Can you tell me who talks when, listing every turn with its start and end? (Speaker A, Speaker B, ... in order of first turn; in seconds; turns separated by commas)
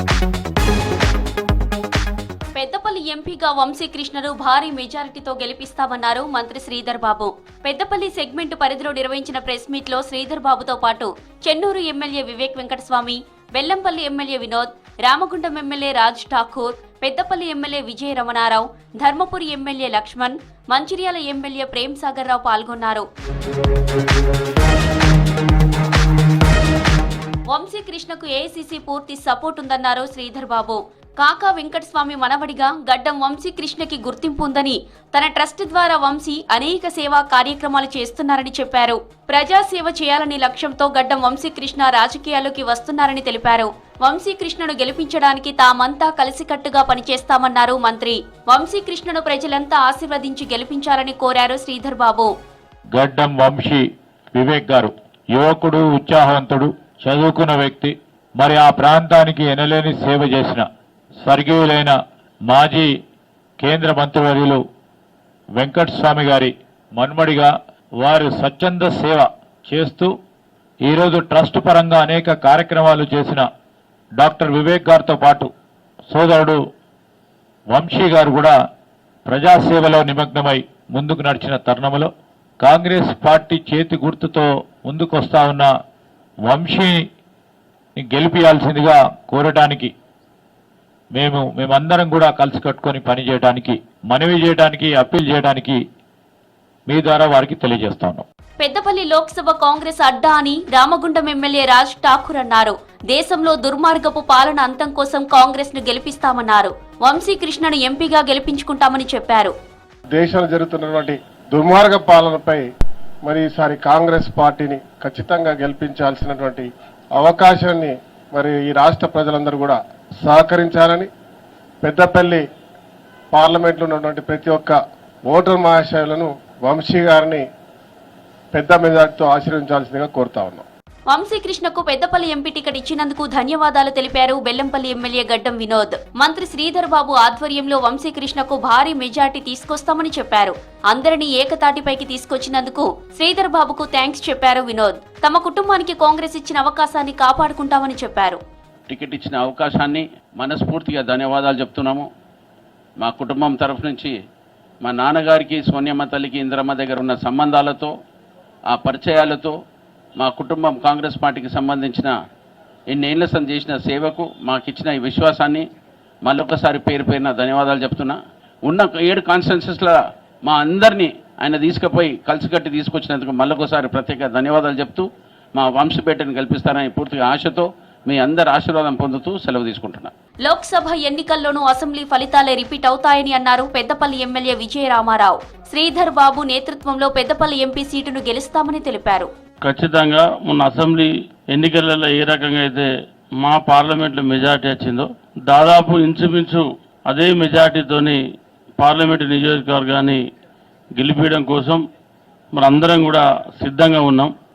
Speaker A: 2.5-23.1, Speaker A: 27.5-52.3, Speaker B: 52.9-60.6, Speaker B: 61.2-62.9, Speaker B: 63.6-64.6, Speaker B: 65.6-70.1, Speaker B: 70.8-73.5, Speaker B: 74.2-75.5, Speaker B: 76.1-76.6, Speaker B: 77.7-78.5, Speaker B: 79.3-82.1, Speaker B: 82.6-85.7, Speaker B: 86.5-87.0, Speaker B: 88.0-89.9, Speaker B: 91.1-95.8, Speaker B: 96.9-98.2, Speaker A: 98.6-109.5, Speaker C: 110.1-112.6, Speaker C: 113.2-121.1, Speaker C: 121.8-122.4, Speaker C: 123.3-127.4, Speaker C: 128.5-130.6, Speaker A: 131.1-148.4, Speaker D: 148.9-152.1, Speaker D: 153.0-154.1, Speaker D: 154.8-157.9, Speaker D: 158.7-159.6, Speaker D: 160.2-162.1, Speaker D: 162.9-165.7, Speaker D: 166.2-180.1, Speaker A: 180.4-189.3, Speaker E: 189.7-192.9, Speaker E: 193.4-198.2, Speaker E: 198.8-200.2, Speaker E: 201.0-201.8, Speaker E: 202.5-204.3